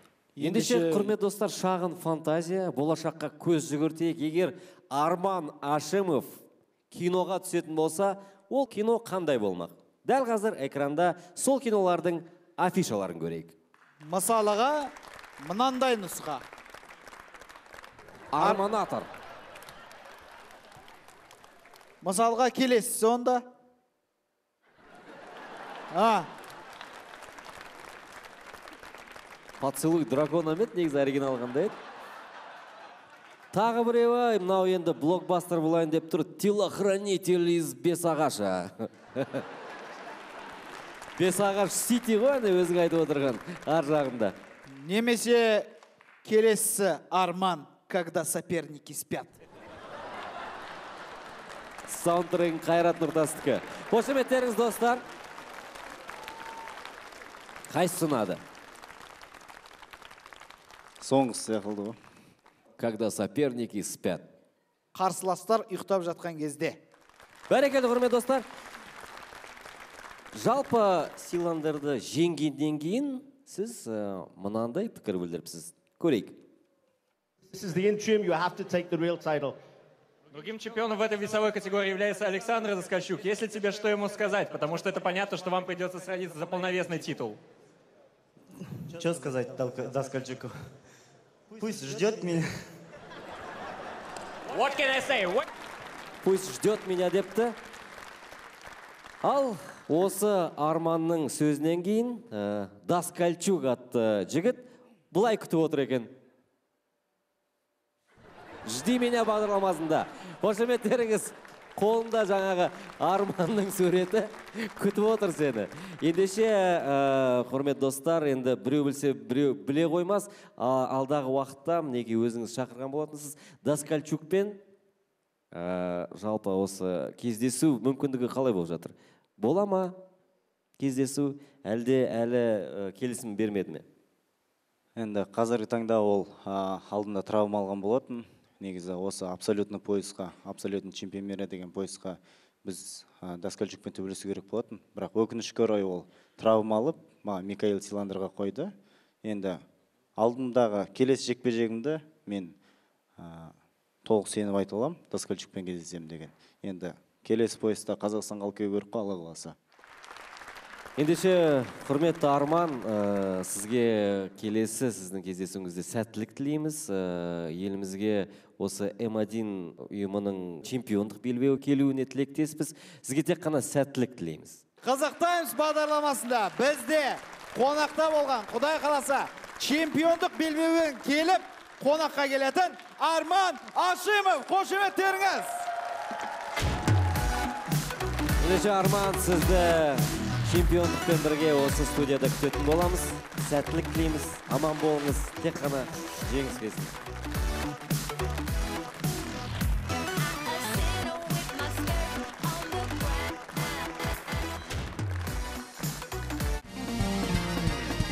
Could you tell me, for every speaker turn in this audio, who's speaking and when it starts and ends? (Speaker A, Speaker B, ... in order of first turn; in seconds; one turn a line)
Speaker A: 0.4-1.1
Speaker B: 0.4-6.4
Speaker B: 6.9-13.5
Speaker A: 14.1-16.4
Speaker B: 18.3-19.1
Speaker A: 22.0-23.4
Speaker A: 25.9-26.3
Speaker B: 29.6-31.8
Speaker B: 33.5-39.4
Speaker B: 41.2-44.4
Speaker A: 44.7-45.7
Speaker A: 46.2-49.3
Speaker B: 51.9-55.0
Speaker B: 57.7-58.4
Speaker C: 61.0-62.0
Speaker B: 62.8-64.2
Speaker A: 64.9-66.8
Speaker B: 67.5-68.4
Speaker B: 70.3-76.4
Speaker D: 77.5-79.5
Speaker E: 80.3-87.4
Speaker F: 89.0-90.5
Speaker F: 91.6-92.4
Speaker E: 94.5-95.5
Speaker B: 96.2-97.5
Speaker B: 99.2-106.1
Speaker B: 108.6-124.6
Speaker B: 125.5-130.0
Speaker B: 130.8-133.8
Speaker C: 134.9-148.7
Speaker C: 149.2-149.6
Speaker C: 150.2-152.6
Speaker C: 153.2-159.5
Speaker B: 161.0-174.6
Speaker A: 174.8-185.6
Speaker B: 188.4-196.9